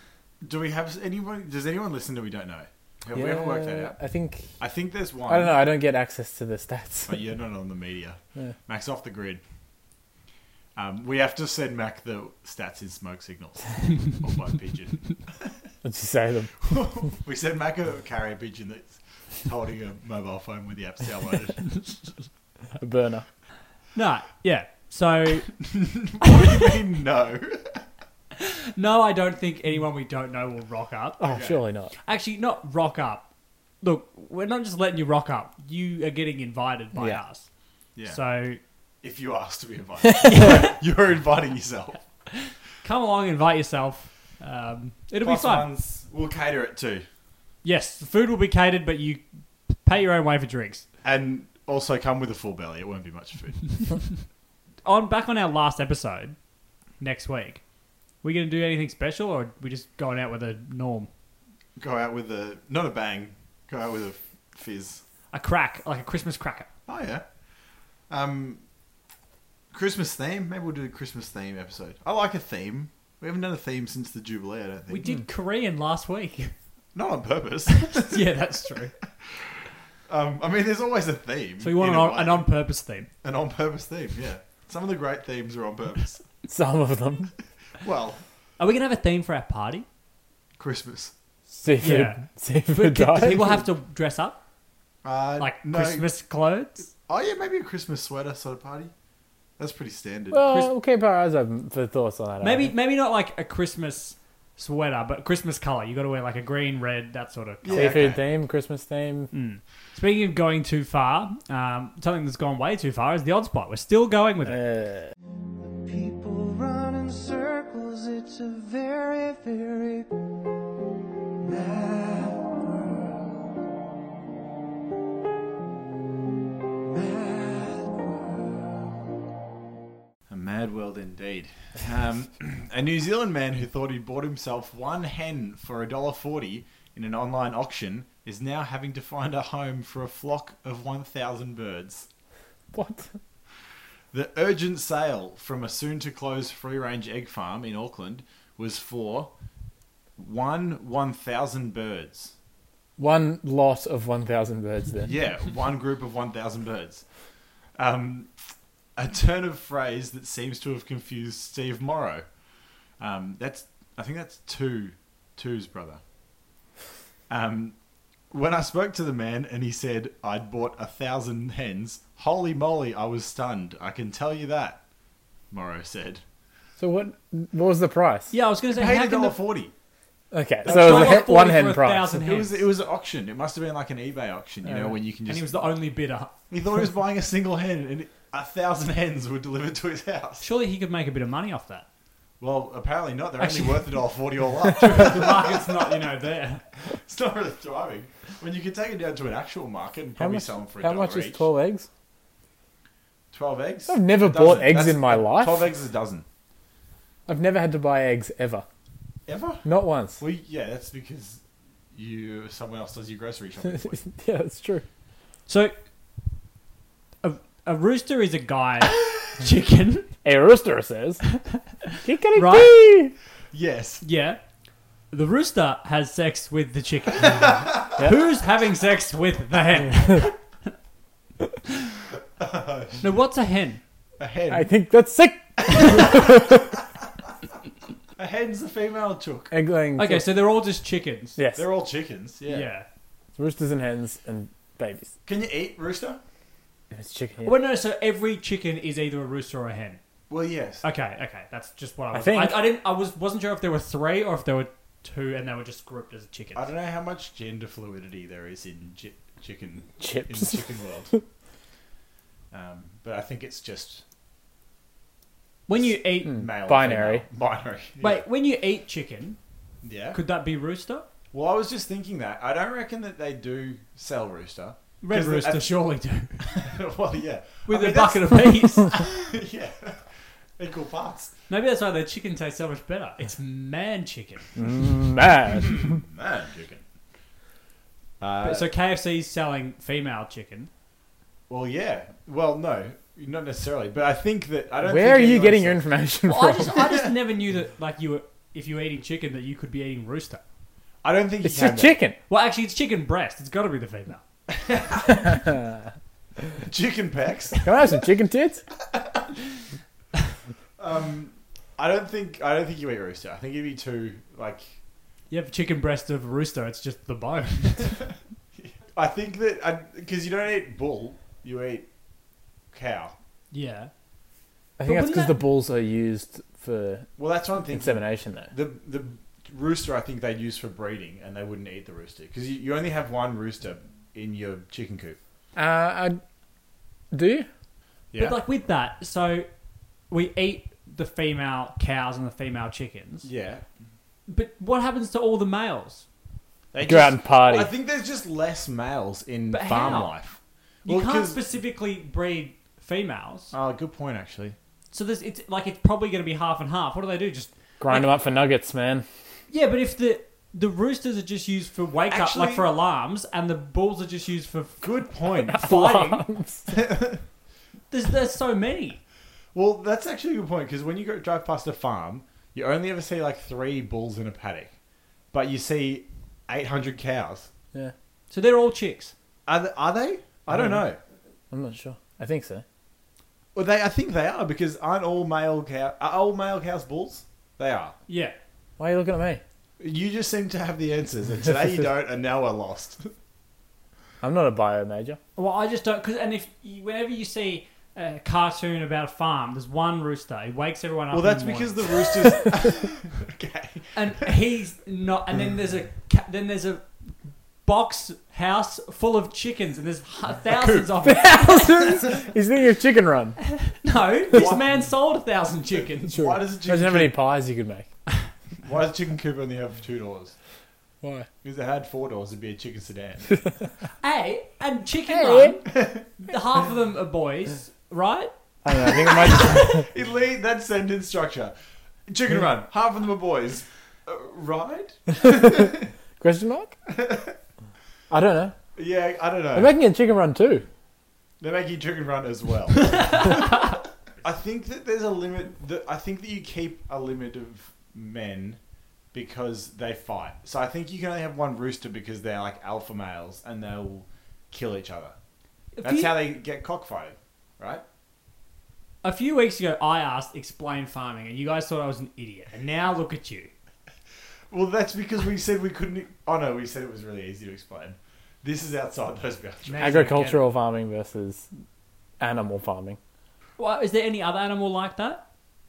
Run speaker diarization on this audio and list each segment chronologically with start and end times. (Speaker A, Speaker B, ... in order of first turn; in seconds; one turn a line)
Speaker A: 0.4-4.0
Speaker B: 3.1-4.5
Speaker A: 4.6-5.6
Speaker B: 5.3-7.2
Speaker A: 7.1-9.4
Speaker A: 10.8-15.5
Speaker B: 15.8-16.7
Speaker A: 16.6-21.9
Speaker B: 22.8-23.3
Speaker C: 23.9-25.5
Speaker A: 25.6-27.9
Speaker C: 26.3-26.7
Speaker C: 28.4-31.2
Speaker B: 31.2-31.9
Speaker A: 31.2-31.6
Speaker C: 32.0-33.3
Speaker C: 33.8-37.5
Speaker B: 37.0-37.2
Speaker A: 38.0-38.2
Speaker C: 38.0-38.6
Speaker A: 39.0-42.0
Speaker C: 40.3-40.7
Speaker C: 42.3-45.7
Speaker A: 45.2-47.1
Speaker C: 47.6-50.9
Speaker A: 51.0-53.8
Speaker C: 54.8-56.4
Speaker C: 57.0-57.6
Speaker C: 58.2-61.1
Speaker A: 61.8-65.0
Speaker C: 65.3-66.7
Speaker A: 66.9-67.2
Speaker A: 68.1-68.6
Speaker A: 69.7-75.0
Speaker C: 74.9-76.5
Speaker A: 76.9-78.2
Speaker C: 77.7-78.9
Speaker A: 79.3-79.6
Speaker A: 80.1-82.5
Speaker C: 81.6-83.1
Speaker A: 83.2-86.2
Speaker B: 86.5-87.3
Speaker A: 87.8-88.2
Speaker C: 88.6-89.9
Speaker A: 90.6-91.1
Speaker B: 91.6-93.7
Speaker C: 91.8-94.4
Speaker A: 95.0-96.1
Speaker C: 95.4-96.9
Speaker A: 97.1-98.9
Speaker A: 99.6-100.5
Speaker B: 100.3-102.7
Speaker C: 100.4-100.7
Speaker C: 102.4-108.0
Speaker A: 107.6-108.2
Speaker B: 107.7-109.3
Speaker C: 109.3-114.6
Speaker B: 114.5-115.1
Speaker D: 115.8-120.1
Speaker D: 121.4-123.2
Speaker D: 127.0-128.4
Speaker A: 130.3-142.1
Speaker B: 142.7-143.1
Speaker A: 144.1-149.3
Speaker A: 150.2-152.3
Speaker B: 153.0-155.1
Speaker A: 155.1-157.0
Speaker A: 157.8-158.3
Speaker A: 159.0-162.2
Speaker A: 163.0-166.0
Speaker A: 167.3-167.7
Speaker A: 168.3-174.8
Speaker A: 175.5-176.2
Speaker B: 176.8-178.3
Speaker C: 178.3-179.4
Speaker A: 178.7-179.7
Speaker B: 180.3-182.1
Speaker A: 180.7-181.4
Speaker C: 180.7-182.6
Speaker A: 182.1-185.7
Speaker B: 184.7-185.0
Speaker C: 185.3-186.3
Speaker A: 186.5-190.4
Speaker C: 190.4-191.9
Speaker A: 192.4-196.0
Speaker C: 193.4-193.9
Speaker C: 194.8-196.6
Speaker A: 196.8-201.5
Speaker B: 200.2-201.9
Speaker A: 203.3-206.2
Speaker B: 203.9-205.7
Speaker B: 207.3-208.7
Speaker A: 209.3-209.7
Speaker B: 209.7-210.2
Speaker A: 210.2-211.4
Speaker A: 211.9-214.1
Speaker B: 213.7-214.8
Speaker C: 215.5-215.8
Speaker C: 217.2-220.1
Speaker B: 220.2-221.2
Speaker B: 222.0-223.2
Speaker C: 222.3-222.7
Speaker A: 223.5-224.0
Speaker C: 224.0-224.4
Speaker C: 225.1-230.4
Speaker A: 232.4-233.1
Speaker C: 233.0-233.8
Speaker A: 234.2-234.7
Speaker B: 234.5-236.7
Speaker A: 235.7-236.4
Speaker A: 238.2-239.5
Speaker B: 239.5-240.3
Speaker C: 240.0-241.4
Speaker B: 241.4-241.7
Speaker A: 241.6-242.7
Speaker C: 242.5-242.9
Speaker B: 243.3-245.1
Speaker A: 245.2-246.2
Speaker B: 246.9-247.6
Speaker C: 247.4-250.0
Speaker A: 250.3-250.8
Speaker C: 250.8-256.7
Speaker B: 252.1-252.7
Speaker A: 256.6-261.1
Speaker B: 260.0-260.6
Speaker A: 262.5-264.0
Speaker C: 265.7-266.4
Speaker A: 265.7-268.2
Speaker B: 266.2-267.2
Speaker C: 268.0-269.4
Speaker A: 269.8-270.2
Speaker C: 270.1-271.1
Speaker A: 271.3-275.7
Speaker C: 275.0-276.6
Speaker A: 276.4-281.3
Speaker C: 277.7-278.9
Speaker C: 281.5-284.5
Speaker B: 284.6-286.0
Speaker A: 285.5-286.8
Speaker A: 288.2-288.7
Speaker C: 288.4-290.7
Speaker A: 291.5-295.8
Speaker B: 294.8-296.8
Speaker C: 296.3-300.4
Speaker A: 296.7-297.1
Speaker A: 301.0-302.0
Speaker B: 301.4-302.2
Speaker C: 302.3-304.2
Speaker A: 304.5-305.2
Speaker B: 305.1-305.8
Speaker A: 306.6-307.7
Speaker B: 307.6-308.6
Speaker A: 310.8-314.8
Speaker C: 315.3-318.0
Speaker A: 318.6-321.9
Speaker A: 322.7-323.1
Speaker C: 323.5-323.9
Speaker B: 324.8-327.1
Speaker C: 324.9-325.4
Speaker A: 327.2-335.2
Speaker B: 327.7-328.5
Speaker B: 335.6-336.2
Speaker B: 337.1-337.5
Speaker A: 338.1-338.4
Speaker C: 338.2-339.5
Speaker C: 340.1-343.3
Speaker A: 343.2-343.6
Speaker C: 344.3-346.1
Speaker A: 346.7-351.4
Speaker B: 346.8-347.7
Speaker C: 349.5-350.1
Speaker C: 350.9-353.5
Speaker A: 353.5-354.6
Speaker C: 354.9-358.1
Speaker B: 357.8-359.1
Speaker C: 359.5-364.9
Speaker A: 362.1-362.7
Speaker A: 364.8-365.9
Speaker B: 365.5-366.8
Speaker C: 365.5-366.2
Speaker A: 366.7-367.2
Speaker C: 367.9-369.0
Speaker A: 369.5-374.7
Speaker A: 375.3-377.5
Speaker C: 378.3-379.1
Speaker A: 379.5-381.0
Speaker B: 380.5-380.8
Speaker B: 381.5-382.6
Speaker A: 383.6-387.9
Speaker C: 388.1-388.4
Speaker B: 388.8-389.4
Speaker A: 389.8-393.1
Speaker B: 394.2-395.2
Speaker C: 395.4-402.1
Speaker A: 401.1-404.3
Speaker C: 403.9-406.9
Speaker C: 407.6-412.1
Speaker A: 410.4-410.9
Speaker B: 411.0-413.4
Speaker C: 413.6-416.2
Speaker A: 414.3-414.6
Speaker A: 416.1-417.1
Speaker B: 416.1-417.9
Speaker A: 418.6-420.3
Speaker B: 421.0-421.3
Speaker A: 421.4-423.5
Speaker C: 424.0-429.8
Speaker B: 425.1-425.6
Speaker A: 425.7-426.0
Speaker B: 428.6-429.9
Speaker A: 429.1-431.5
Speaker A: 432.1-435.9
Speaker B: 435.1-436.7
Speaker A: 436.9-437.4
Speaker B: 438.1-438.6
Speaker A: 438.8-439.8
Speaker B: 439.6-440.7
Speaker A: 441.4-448.6
Speaker A: 449.1-455.1
Speaker C: 455.8-456.1
Speaker A: 455.8-457.8
Speaker C: 459.0-463.5
Speaker A: 464.5-470.1
Speaker C: 469.7-470.5
Speaker B: 469.8-471.5
Speaker B: 472.2-473.0
Speaker C: 473.6-475.2